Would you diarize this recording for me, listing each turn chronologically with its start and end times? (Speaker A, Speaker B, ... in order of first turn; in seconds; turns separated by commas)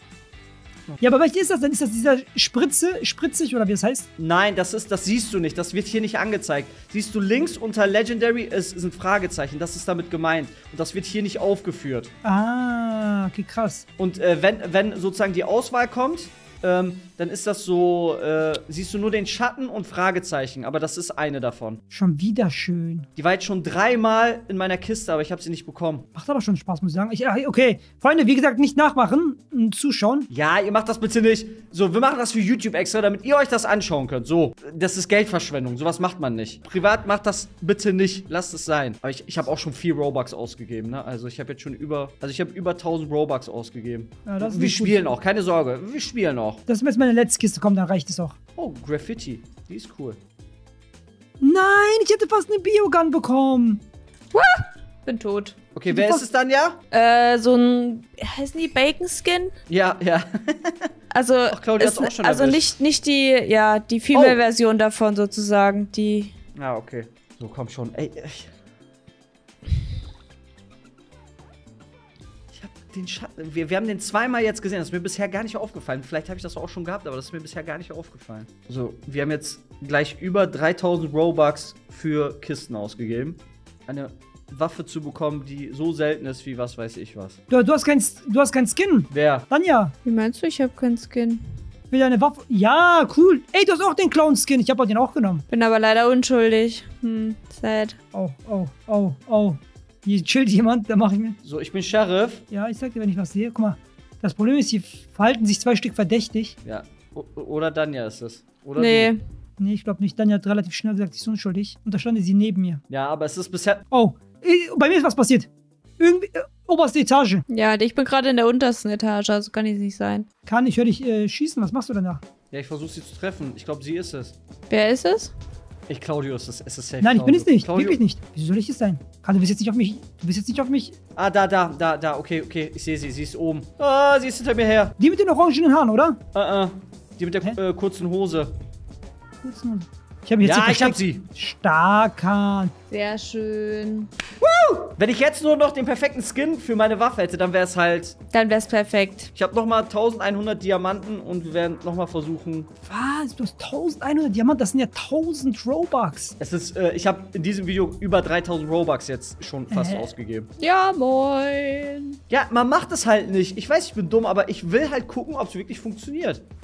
Speaker A: 1.0-4.1, Speaker B: 4.2-12.1, Speaker A: 12.2-13.8, Speaker B: 14.0-21.8, Speaker A: 21.9-23.1, Speaker B: 23.1-26.1, Speaker A: 26.1-30.3, Speaker B: 30.3-46.6, Speaker A: 44.2-45.0, Speaker A: 46.7-48.4, Speaker B: 48.6-50.2, Speaker A: 51.4-53.8, Speaker C: 54.3-55.5, Speaker B: 55.7-56.8, Speaker A: 55.9-56.2, Speaker C: 56.9-59.5, Speaker B: 59.7-60.9, Speaker C: 61.1-66.3, Speaker B: 61.5-62.7, Speaker B: 64.1-64.4, Speaker B: 66.5-68.5, Speaker B: 72.5-87.4, Speaker A: 87.5-89.9, Speaker B: 89.1-89.5, Speaker C: 90.0-91.4, Speaker A: 91.9-95.4, Speaker C: 95.5-98.0, Speaker A: 98.1-101.4, Speaker B: 101.4-102.4, Speaker A: 102.5-106.5, Speaker B: 106.6-109.1, Speaker C: 108.8-109.2, Speaker A: 109.6-112.8, Speaker B: 112.9-113.8, Speaker A: 113.9-117.4, Speaker C: 117.5-120.2, Speaker A: 120.5-122.2, Speaker B: 122.5-124.3, Speaker C: 124.7-125.3, Speaker B: 125.9-128.0, Speaker A: 127.0-130.9, Speaker B: 131.2-134.9, Speaker A: 135.0-136.2, Speaker B: 136.3-138.5, Speaker A: 139.4-142.7, Speaker B: 140.4-141.2, Speaker C: 142.9-144.1, Speaker B: 144.4-148.2, Speaker C: 148.3-149.3, Speaker B: 149.3-152.7, Speaker A: 152.8-156.3, Speaker B: 156.4-160.5, Speaker A: 159.7-160.1, Speaker C: 160.6-162.2, Speaker B: 162.3-166.4